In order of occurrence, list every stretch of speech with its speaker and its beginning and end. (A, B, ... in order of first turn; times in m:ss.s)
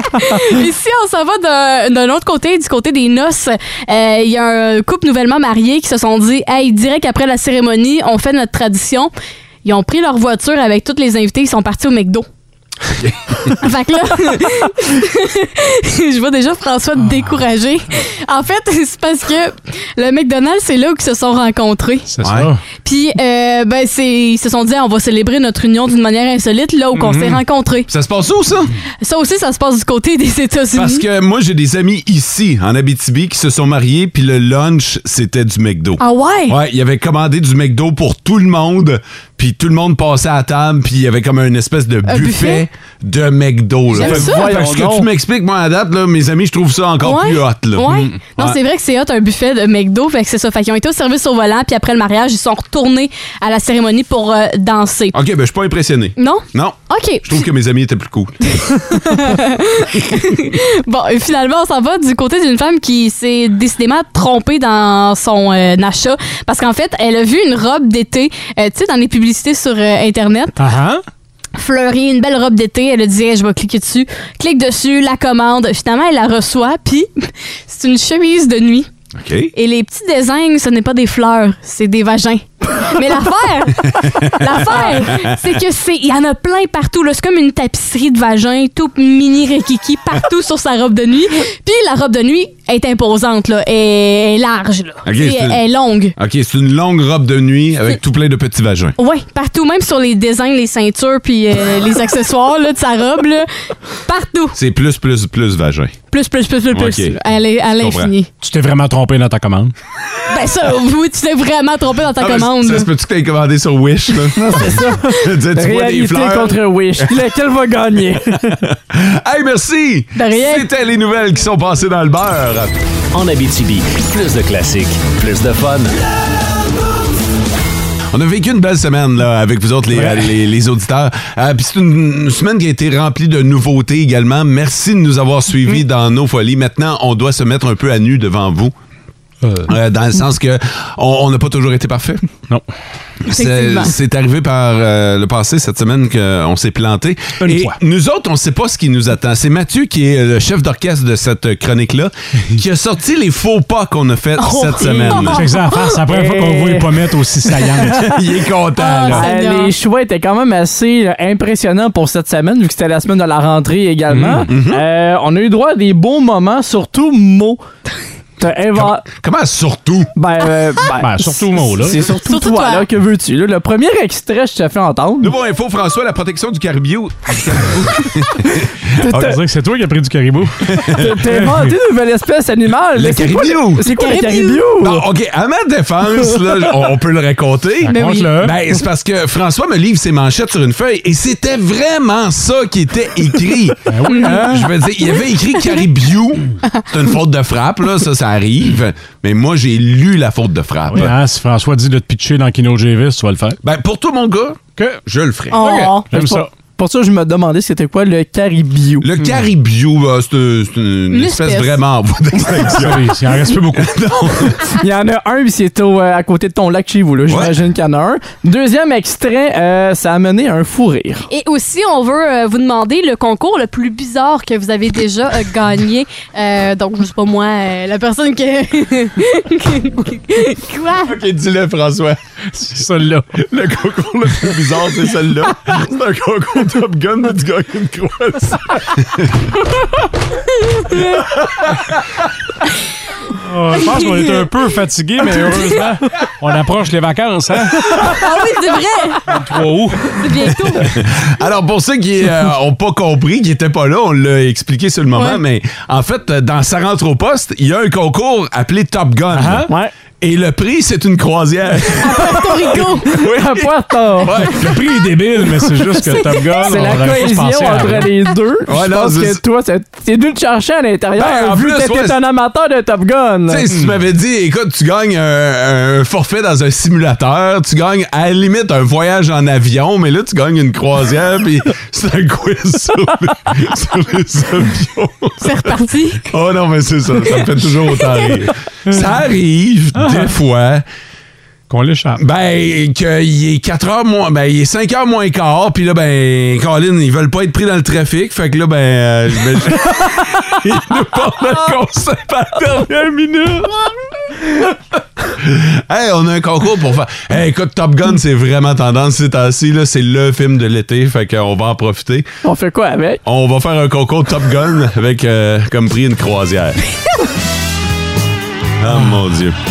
0:00.2-0:09.1 A
0:09.6-0:12.2 A
0:13.0-0:13.5 B
0:13.6-0:22.1 A
0:22.1-0:22.6 C
0:22.2-0:22.5 B
0:22.8-0:27.9 A
0:27.0-0:27.4 C
0:27.9-0:28.7 B
0:29.0-0:31.0 A
0:30.8-0:48.6 B
0:36.0-0:36.6 A
0:42.1-0:42.7 A
0:43.9-0:45.1 D
0:44.0-0:44.6 A
0:47.0-0:55.2 A
0:55.1-0:59.1 B
0:56.2-0:57.4 A
0:58.5-1:10.6 A
0:59.9-1:00.2 B
1:10.6-1:11.0 C
1:11.6-1:18.9 A
1:19.2-1:19.5 B
1:19.6-1:36.2 A
1:23.9-1:25.4 B
1:35.0-1:35.6 B
1:36.2-1:39.0 B
1:39.0-1:43.5 A
1:44.0-1:44.6 A
1:44.5-1:46.0 B
1:46.1-1:48.3 A
1:46.7-1:47.2 B
1:47.8-1:48.1 B
1:48.4-1:49.7 C
1:50.3-1:52.9 A
1:52.2-1:57.2 B
1:54.3-1:58.5 D
1:58.4-2:02.8 B
2:00.2-2:00.7 A
2:03.1-2:05.9 E
2:08.1-2:18.7 B
2:10.0-2:10.3 C
2:19.6-2:22.2 B
2:23.3-2:35.4 B
2:23.3-2:23.9 A
2:27.4-2:27.8 C
2:34.4-2:35.4 A
2:35.2-2:38.2 C
2:36.0-2:37.1 D
2:37.9-2:39.3 B
2:38.8-2:39.8 A
2:39.1-2:47.6 D
2:44.1-2:44.5 C
2:44.5-2:44.8 B
2:48.4-2:49.1 D
2:48.7-2:50.1 B
2:50.2-2:55.3 D
2:51.0-2:52.0 C
2:52.2-2:52.9 A
2:55.2-2:59.3 B
2:59.0-3:01.8 C
2:59.0-2:59.4 D
3:00.6-3:01.2 B
3:00.9-3:05.1 D
3:02.9-3:03.9 B
3:03.9-3:04.6 A
3:04.8-3:21.2 B
3:07.8-3:08.6 C
3:07.9-3:08.3 A
3:13.9-3:14.6 C
3:14.1-3:14.7 A
3:20.9-3:23.6 C
3:23.6-3:25.6 B
3:24.8-3:26.5 C
3:25.5-3:26.1 A
3:26.1-3:29.1 D
3:29.0-3:34.7 B
3:31.1-3:31.8 A
3:32.5-3:34.0 C
3:34.8-3:41.2 D
3:37.3-3:37.6 B
3:41.3-3:51.2 A
3:51.0-3:52.2 B
3:52.6-3:53.4 C
3:53.3-3:59.6 B
4:00.6-4:01.3 A
4:00.9-4:02.0 B
4:03.3-4:08.2 C
4:03.8-4:04.5 A
4:08.0-4:09.4 A
4:09.3-4:10.2 C
4:10.1-4:10.9 A
4:10.8-4:19.7 B
4:15.1-4:15.4 A
4:19.3-4:19.7 C
4:20.2-4:24.9 B
4:22.0-4:23.2 A
4:23.1-4:24.5 D
4:24.4-4:28.1 C
4:26.0-4:26.5 A
4:26.6-4:33.7 D
4:28.7-4:29.4 B
4:31.2-4:32.2 B
4:33.5-4:50.8 B
4:33.7-4:34.0 C
4:45.4-4:46.3 A
4:50.0-4:50.3 C
4:51.7-4:52.2 C
4:52.2-5:03.9 B
5:05.2-5:12.3 B
5:12.4-5:13.2 D
5:13.2-5:16.8 B
5:18.8-5:19.6 B
5:18.9-5:19.2 C